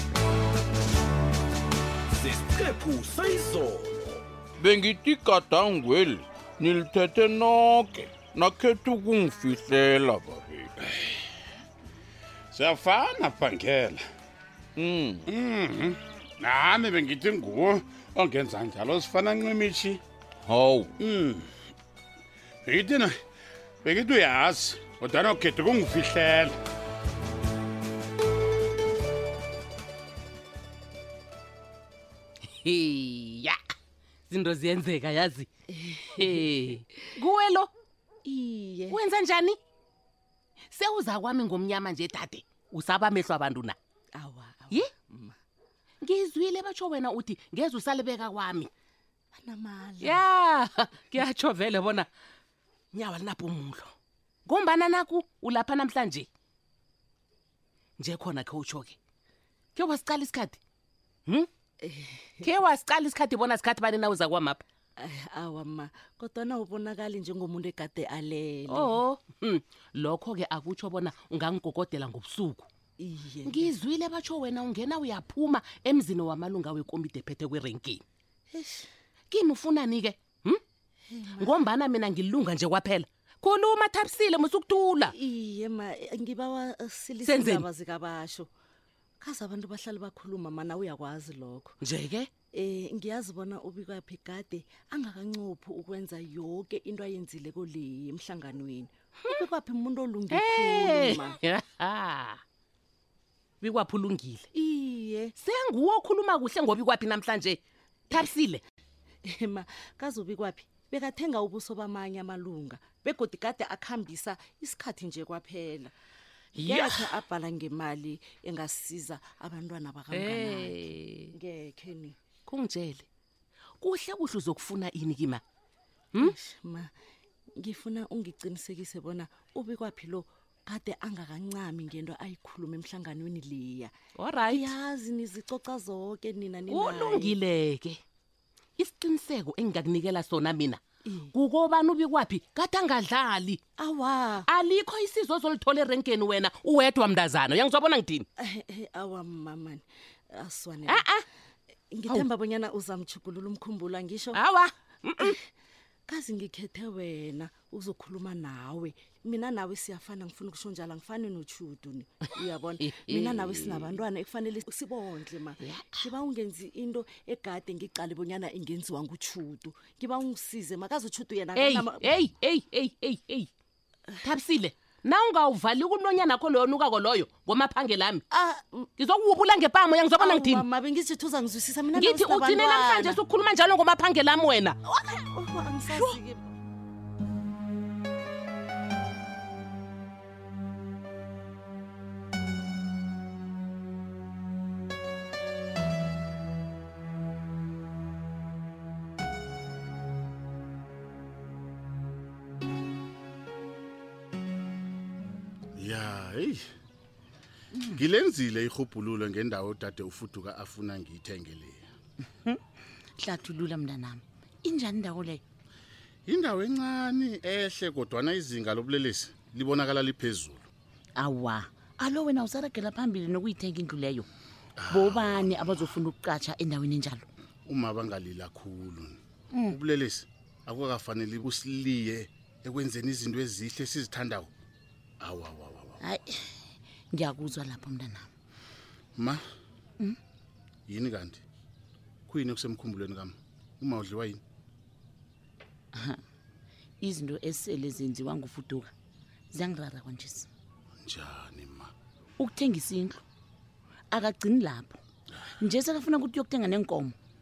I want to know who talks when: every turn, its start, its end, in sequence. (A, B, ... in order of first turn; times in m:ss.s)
0:02.1-0:04.2 A
0:04.6-0:10.7 B
0:10.9-0:11.2 C
0:12.5-0:14.0 C
0:14.8-0:15.2 B
0:15.3-0:20.0 C
0:20.4-0:20.9 B
0:21.0-0:21.5 C
0:22.6-0:23.1 C
0:23.8-0:26.6 C
0:32.6-0:33.6 D
0:34.3-0:35.5 D
0:35.7-0:36.7 E
0:36.2-0:37.7 D
0:38.2-0:39.0 E
0:38.9-0:39.6 D
0:40.7-0:43.8 D
0:44.1-0:45.3 E
0:46.0-0:48.7 D
0:49.3-0:50.2 E
0:50.0-0:52.1 D
0:52.9-0:53.9 D
0:54.4-0:56.3 D
0:58.0-0:59.0 D
0:59.7-1:00.6 D
1:01.8-1:02.4 E
1:02.4-1:04.6 D
1:05.0-1:09.0 E
1:08.7-1:12.7 D
1:13.0-1:13.7 E
1:13.4-1:18.0 D
1:18.5-1:18.9 E
1:19.3-1:20.6 D
1:21.1-1:21.7 E
1:21.3-1:25.1 D
1:25.1-1:28.5 E
1:27.2-1:27.7 D
1:29.2-1:31.7 E
1:31.8-1:32.3 D
1:32.5-1:41.4 E
1:40.3-1:42.4 D
1:43.6-1:44.5 D
1:44.6-1:45.3 E
1:45.4-1:47.6 D
1:48.1-1:48.6 D
1:49.2-1:55.9 E
1:56.6-1:57.2 D
1:56.6-2:00.8 E
2:00.1-2:01.3 D
2:01.3-2:02.1 E
2:02.4-2:03.0 D
2:03.8-2:05.4 D
2:06.2-2:06.9 E
2:07.6-2:13.9 E
2:14.2-2:14.7 D
2:14.5-2:17.4 E
2:16.7-2:18.0 D
2:18.8-2:20.8 D
2:21.0-2:21.3 E
2:21.3-2:23.6 D
2:23.8-2:24.5 E
2:24.5-2:28.2 D
2:28.4-2:31.0 E
2:30.8-2:31.2 D
2:31.9-2:34.4 E
2:34.4-2:35.4 D
2:36.1-2:52.2 E
2:42.4-2:44.0 D
2:51.6-2:53.5 D
2:54.2-2:58.2 D
2:58.3-2:58.9 E
2:59.0-3:00.6 D
3:00.1-3:03.2 E
3:01.9-3:04.8 D
3:04.8-3:06.4 E
3:05.9-3:06.2 D
3:25.8-3:26.6 C
3:27.9-3:31.8 C
3:33.2-3:35.4 F
3:36.3-3:40.6 C
3:41.2-3:44.3 F
3:44.8-3:46.0 C
3:44.9-3:47.2 F
3:47.7-3:49.2 C
3:49.5-3:49.8 F
3:49.7-3:54.5 C
3:55.2-3:56.0 C
3:56.0-3:56.4 F
3:57.1-3:58.3 F
3:59.2-3:59.4 C
4:00.9-4:01.4 C
4:02.3-4:04.4 C
4:05.9-4:06.2 F
4:07.0-4:08.9 F
4:09.5-4:10.5 F
4:11.0-4:11.9 C
4:12.4-4:13.2 F
4:14.1-4:15.0 F
4:15.6-4:17.1 F